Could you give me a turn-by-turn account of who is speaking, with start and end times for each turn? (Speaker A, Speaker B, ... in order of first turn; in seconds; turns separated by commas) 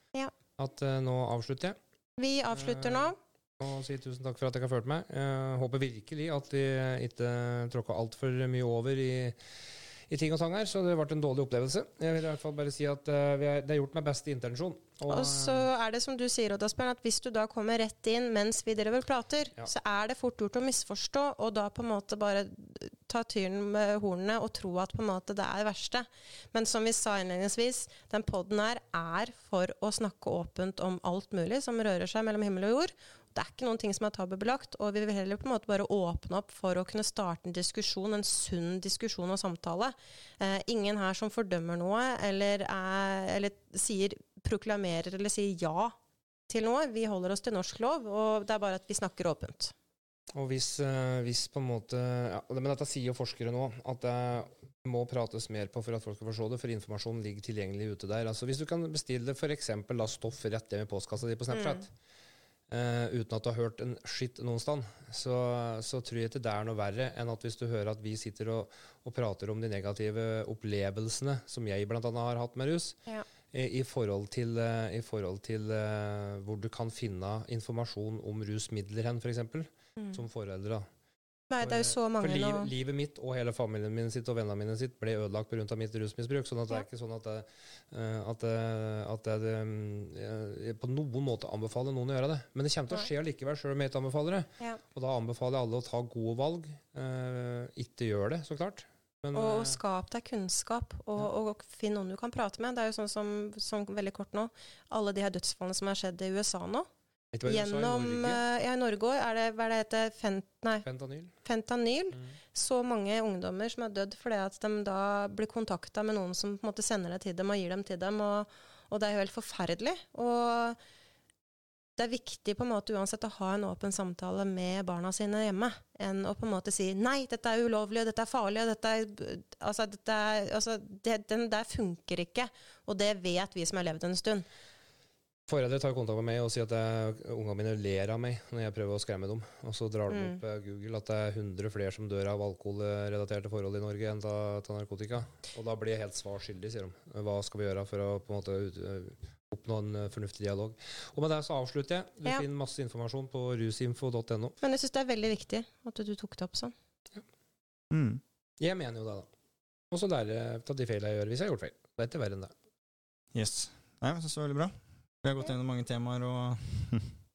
Speaker A: 0.6-1.8, Speaker B: 2.2-3.2, Speaker A: 2.5-9.4, Speaker A: 10.1-15.7, Speaker B: 15.1-45.9, Speaker B: 46.5-49.7, Speaker A: 50.3-61.9, Speaker A: 62.7-73.0, Speaker A: 73.5-80.9, Speaker B: 81.5-82.7, Speaker A: 81.6-99.8, Speaker B: 99.3-106.9, Speaker A: 107.3-108.4, Speaker B: 107.5-110.8, Speaker A: 110.8-111.3, Speaker B: 111.4-120.8, Speaker B: 122.0-134.4, Speaker A: 135.5-154.6, Speaker B: 140.1-140.4, Speaker B: 154.6-156.7, Speaker C: 157.9-158.2, Speaker A: 158.6-159.3, Speaker A: 159.9-162.5, Speaker C: 163.3-167.1